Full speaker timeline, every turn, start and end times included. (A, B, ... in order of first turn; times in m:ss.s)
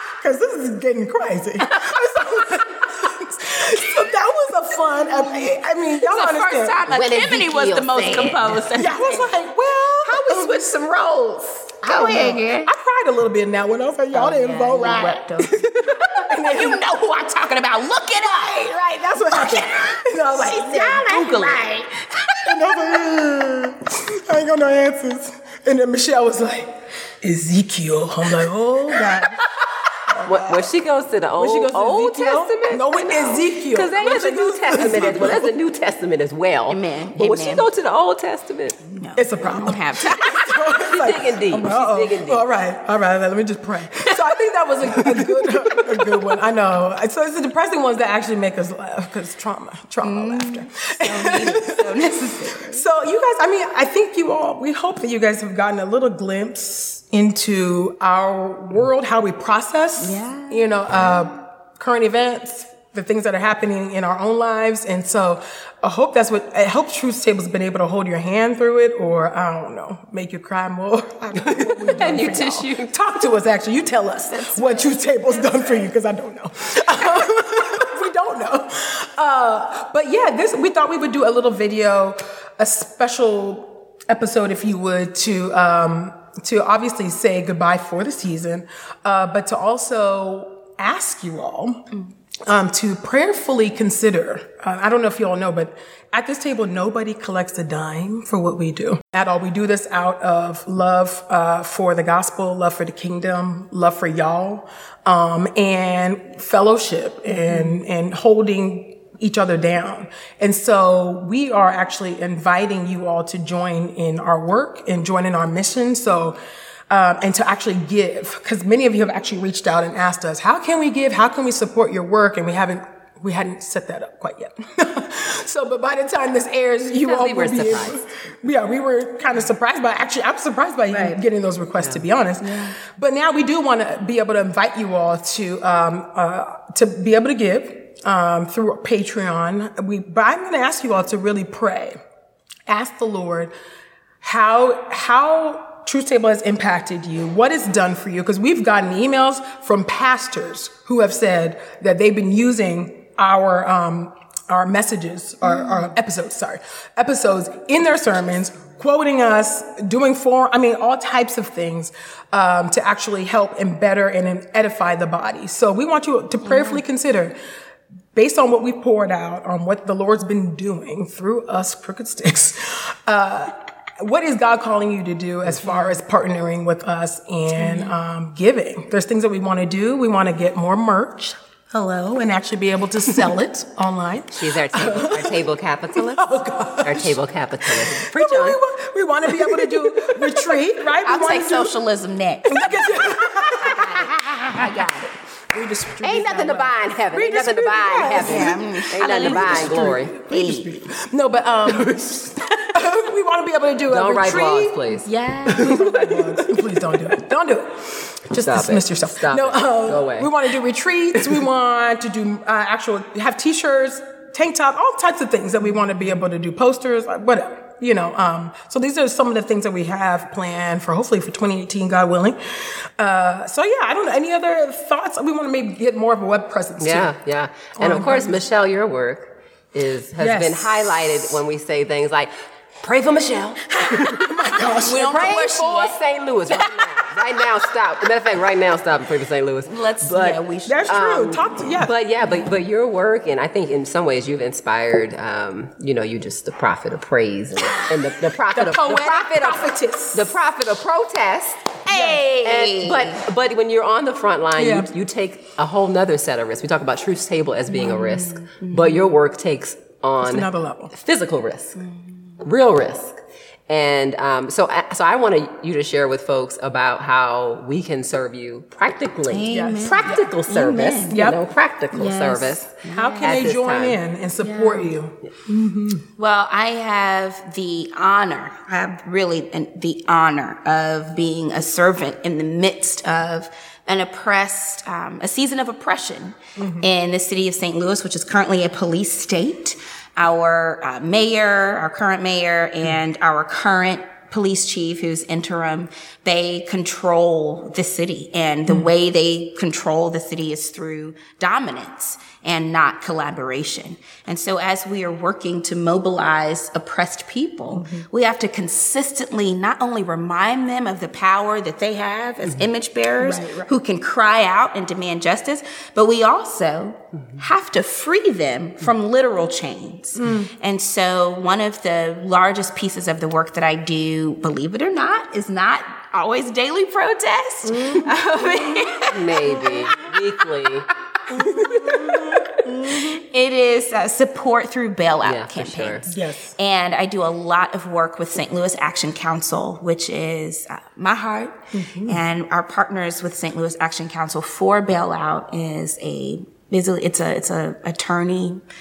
0:00.2-0:06.8 A
0:06.0-0:09.4 B
0:06.9-0:08.6 C
0:08.7-0:10.7 A
0:10.0-0:12.7 B
0:11.8-0:16.9 A
0:14.1-0:22.7 B
0:18.7-0:21.6 A
0:22.4-0:29.4 A
0:30.1-0:30.7 A
0:30.2-0:38.8 C
0:31.4-0:35.5 A
0:36.7-0:37.7 B
0:38.8-0:40.6 B
0:39.2-1:31.8 A
0:40.8-0:42.4 C
0:50.0-0:52.8 B
1:00.0-1:00.7 B
1:11.4-1:13.0 C
1:14.2-1:15.0 B
1:32.4-1:56.4 A
1:56.9-2:22.0 A
2:07.0-2:08.0 C
2:10.9-2:11.2 B
2:12.4-2:12.7 B
2:22.7-2:23.5 A
2:24.2-2:47.3 A
2:46.4-2:46.8 B
2:48.1-3:11.7 A
2:57.6-2:57.9 B
3:04.3-3:06.3 C
3:06.8-3:08.6 C
3:11.0-3:15.1 B
3:12.4-3:24.8 A
3:16.0-3:20.1 C
3:18.1-3:20.9 B
3:23.9-3:26.6 C
3:25.0-3:25.9 B
3:25.5-3:47.1 A
3:28.3-3:30.3 C
3:46.8-3:54.4 C
3:47.8-3:48.4 A
3:50.2-3:51.3 A
3:53.9-3:55.4 A
3:54.8-3:56.9 B
3:55.0-4:11.8 C
3:59.7-4:00.9 B
4:00.6-4:01.9 A
4:08.5-4:10.3 A
4:11.8-4:13.2 B
4:11.9-4:12.2 A
4:12.3-4:21.8 C
4:14.6-4:14.9 A
4:17.7-4:18.9 B
4:20.2-4:20.9 A
4:22.4-4:34.0 C
4:29.3-4:31.2 B
4:29.5-4:30.3 A
4:31.1-4:31.4 A
4:31.9-4:33.4 B
4:32.8-4:36.0 A
4:34.4-4:34.9 B
4:36.2-5:30.1 B
4:46.6-4:46.9 A
5:07.7-5:08.1 A
5:13.2-5:13.7 A
5:20.2-5:20.5 A
5:27.6-5:28.8 A
5:29.0-5:30.9 C
5:31.3-5:33.2 A
5:31.3-5:48.6 B
5:31.5-5:32.0 C
5:35.2-5:36.1 C
5:36.1-5:36.5 A
5:41.7-5:42.2 A